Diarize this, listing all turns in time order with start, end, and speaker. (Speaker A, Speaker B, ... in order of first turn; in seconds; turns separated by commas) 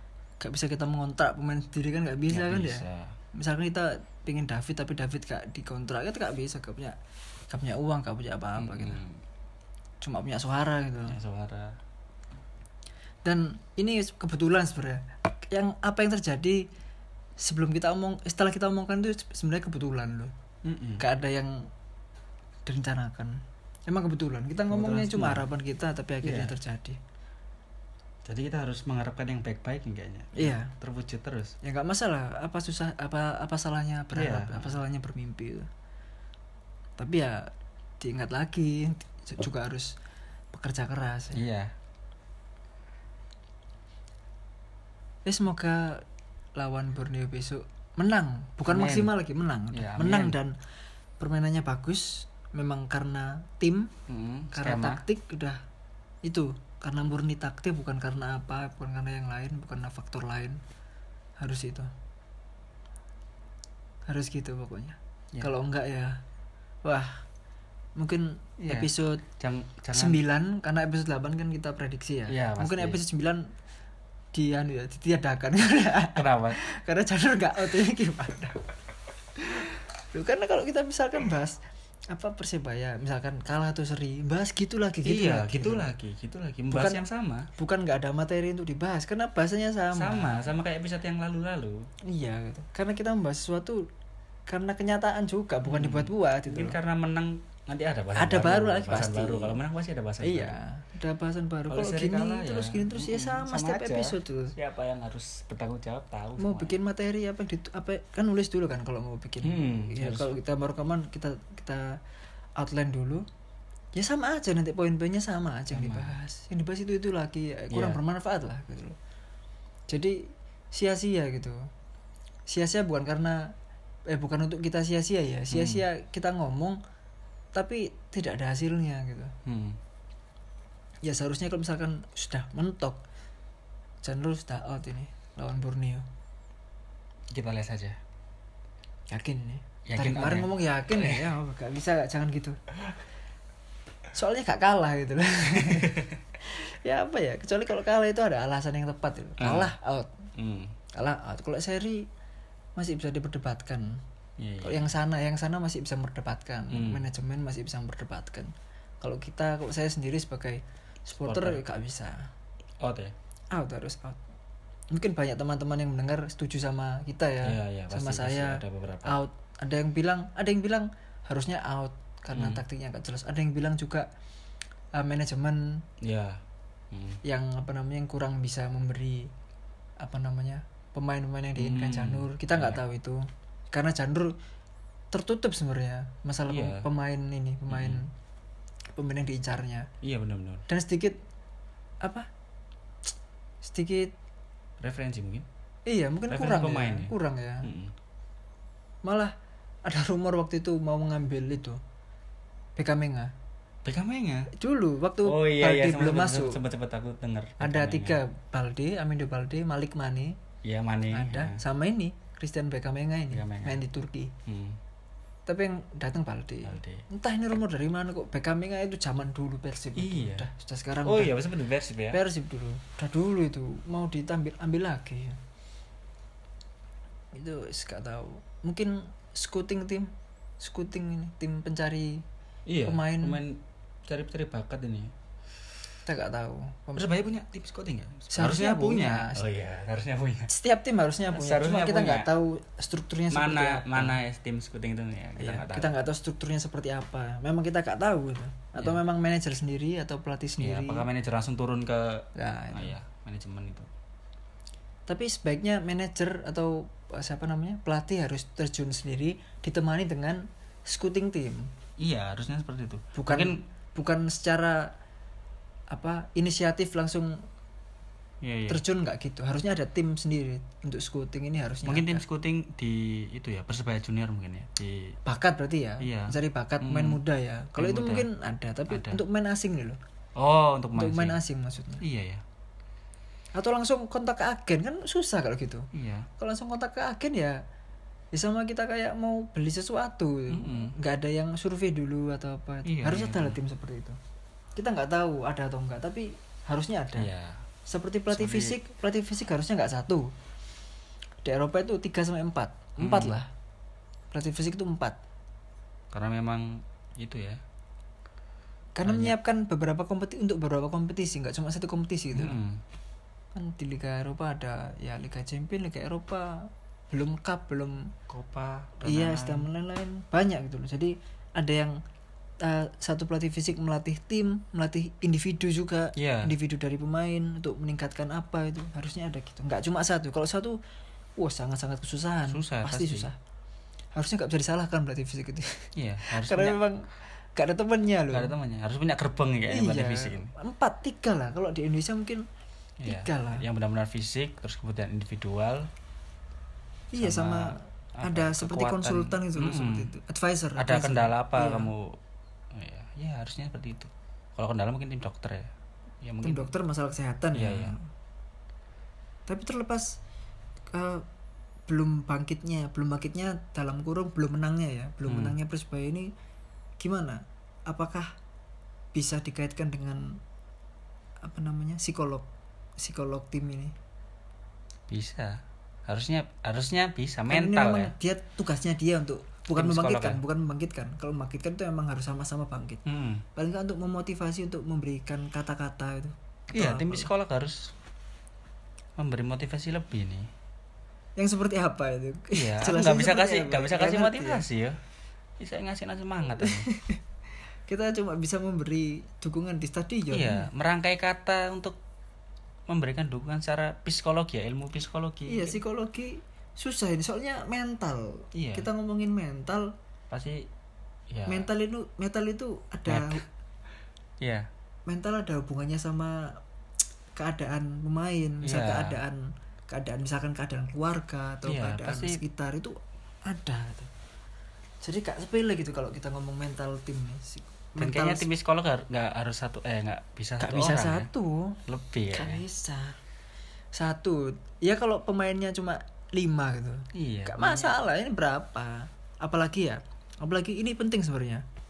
Speaker A: 0.4-7.0, Speaker B: 2.3-3.1, Speaker A: 7.5-9.0, Speaker B: 8.6-9.2, Speaker A: 10.0-11.2, Speaker B: 11.1-11.8, Speaker A: 13.2-16.7, Speaker A: 17.4-20.3, Speaker B: 20.6-21.0, Speaker A: 21.0-21.7, Speaker A: 22.6-27.0, Speaker B: 24.7-25.5, Speaker B: 26.2-26.6, Speaker B: 28.2-31.5, Speaker A: 30.3-30.7, Speaker A: 31.6-35.7, Speaker B: 34.1-34.8, Speaker A: 37.0-40.0, Speaker A: 40.5-41.4, Speaker B: 41.3-41.7, Speaker A: 45.2-46.0, Speaker A: 46.5-50.5, Speaker B: 48.7-49.1, Speaker B: 49.7-50.4, Speaker A: 51.2-53.9, Speaker B: 54.1-55.0, Speaker A: 54.5-55.6, Speaker A: 56.2-60.6, Speaker A: 61.4-61.9, Speaker A: 64.0-66.2, Speaker A: 66.8-67.2, Speaker A: 68.0-69.2, Speaker B: 68.7-70.2, Speaker A: 69.9-73.5, Speaker B: 72.3-73.0, Speaker A: 74.3-78.7, Speaker B: 76.1-76.6, Speaker A: 79.3-85.9, Speaker B: 85.0-87.5, Speaker A: 86.7-87.0, Speaker A: 87.5-90.5, Speaker B: 89.9-91.8, Speaker A: 92.1-93.9, Speaker A: 94.5-96.8, Speaker B: 95.6-100.6, Speaker A: 98.2-99.6, Speaker A: 100.2-104.5, Speaker B: 101.7-106.8, Speaker A: 106.4-112.0, Speaker B: 109.4-110.3, Speaker A: 112.6-113.2, Speaker A: 113.9-119.0, Speaker B: 115.7-116.2, Speaker B: 117.7-118.0, Speaker A: 119.9-121.7, Speaker A: 122.5-123.5, Speaker A: 124.1-126.8, Speaker B: 125.5-125.8, Speaker A: 127.5-129.3, Speaker B: 129.4-129.8, Speaker A: 131.0-133.0, Speaker A: 134.0-136.1, Speaker B: 137.3-138.0, Speaker A: 139.1-142.6, Speaker B: 139.9-141.3, Speaker A: 144.1-150.1, Speaker B: 145.5-146.2, Speaker B: 149.4-149.7, Speaker B: 150.3-150.7, Speaker A: 150.9-152.1, Speaker A: 152.8-154.0, Speaker B: 154.4-154.9, Speaker A: 154.6-162.3, Speaker B: 156.7-157.1, Speaker B: 161.2-161.6, Speaker B: 162.8-163.1, Speaker A: 163.5-164.2, Speaker A: 164.9-174.1, Speaker B: 167.4-169.2, Speaker B: 172.3-172.6, Speaker A: 174.9-175.8, Speaker B: 176.0-177.2, Speaker A: 177.2-179.3, Speaker A: 180.0-184.3, Speaker B: 181.6-182.8, Speaker A: 185.1-188.1, Speaker B: 186.5-186.9, Speaker B: 187.7-188.0, Speaker A: 188.9-189.9, Speaker B: 190.0-190.6, Speaker A: 190.7-191.2, Speaker A: 193.6-194.1, Speaker B: 194.8-195.5, Speaker A: 195.9-197.7, Speaker B: 196.3-197.9, Speaker A: 199.0-199.3, Speaker A: 199.8-201.8, Speaker A: 202.8-203.3, Speaker B: 203.8-204.5, Speaker A: 204.5-206.6, Speaker B: 205.2-208.2, Speaker A: 207.6-210.3, Speaker B: 210.6-211.6, Speaker A: 211.1-214.3, Speaker B: 213.3-213.8, Speaker B: 214.4-214.8, Speaker A: 215.5-221.3, Speaker B: 216.6-217.0, Speaker B: 219.9-220.5, Speaker B: 221.0-222.2, Speaker A: 222.1-225.4, Speaker A: 227.3-232.2, Speaker B: 232.7-235.1, Speaker A: 232.8-233.4, Speaker A: 236.0-237.1, Speaker B: 236.9-240.5, Speaker A: 238.3-239.4, Speaker A: 240.5-244.2, Speaker B: 241.3-242.3, Speaker B: 243.3-245.9, Speaker A: 245.4-251.1, Speaker B: 250.6-253.9, Speaker A: 252.3-252.9, Speaker A: 255.1-261.7, Speaker B: 262.0-263.6, Speaker A: 263.1-264.9, Speaker A: 265.9-267.4, Speaker B: 268.4-268.8, Speaker A: 268.7-272.2, Speaker B: 271.8-275.2, Speaker A: 275.2-280.0, Speaker B: 276.0-277.2, Speaker B: 277.8-278.3, Speaker B: 278.9-279.2, Speaker B: 280.4-281.4, Speaker A: 280.9-282.0, Speaker B: 282.0-282.4, Speaker A: 283.5-287.6, Speaker B: 285.9-286.3, Speaker A: 288.3-294.2, Speaker B: 290.5-290.9, Speaker B: 292.8-293.6, Speaker A: 294.8-297.3, Speaker B: 297.1-297.6, Speaker A: 297.9-300.3, Speaker B: 298.3-298.8, Speaker A: 301.4-303.5, Speaker B: 303.0-303.4, Speaker A: 304.3-305.2, Speaker B: 306.1-307.6, Speaker A: 308.9-312.6, Speaker B: 309.1-309.3, Speaker B: 312.3-312.8, Speaker A: 313.5-318.1, Speaker B: 318.3-319.7, Speaker A: 319.0-322.0, Speaker A: 322.6-330.8, Speaker B: 326.1-326.5, Speaker A: 331.4-333.4, Speaker B: 332.5-333.3, Speaker A: 334.1-338.5, Speaker B: 335.9-336.8, Speaker B: 338.3-340.5, Speaker A: 339.7-342.4, Speaker B: 343.0-345.9, Speaker A: 343.0-343.6, Speaker A: 347.1-351.9, Speaker B: 347.2-350.1, Speaker B: 350.8-352.2, Speaker B: 352.7-356.7, Speaker A: 356.4-358.1, Speaker B: 357.5-357.9, Speaker A: 359.5-360.2, Speaker A: 360.9-361.2, Speaker A: 361.9-366.3, Speaker B: 365.2-365.6, Speaker A: 367.0-368.3, Speaker A: 369.1-370.4, Speaker A: 371.4-372.5, Speaker A: 373.0-373.9, Speaker B: 375.1-378.1, Speaker A: 377.5-383.0, Speaker B: 379.7-380.4, Speaker B: 383.1-383.4, Speaker A: 383.5-387.3, Speaker B: 386.7-387.9, Speaker B: 389.2-390.5, Speaker A: 391.4-394.6, Speaker B: 392.5-395.0, Speaker B: 395.6-396.9, Speaker A: 396.6-397.2, Speaker A: 397.9-400.7, Speaker B: 400.3-402.0, Speaker B: 402.9-405.8, Speaker A: 405.4-409.9, Speaker B: 408.5-408.9, Speaker B: 410.3-410.7, Speaker B: 411.3-411.7, Speaker A: 411.4-413.4, Speaker B: 413.1-413.4, Speaker B: 414.4-414.7, Speaker A: 415.1-416.6, Speaker A: 417.3-424.1, Speaker B: 418.6-419.2, Speaker B: 421.6-422.4, Speaker A: 425.0-428.5, Speaker B: 428.0-431.3, Speaker A: 430.6-431.8, Speaker B: 431.9-432.6, Speaker A: 432.3-433.2, Speaker A: 433.9-441.6, Speaker B: 437.1-437.9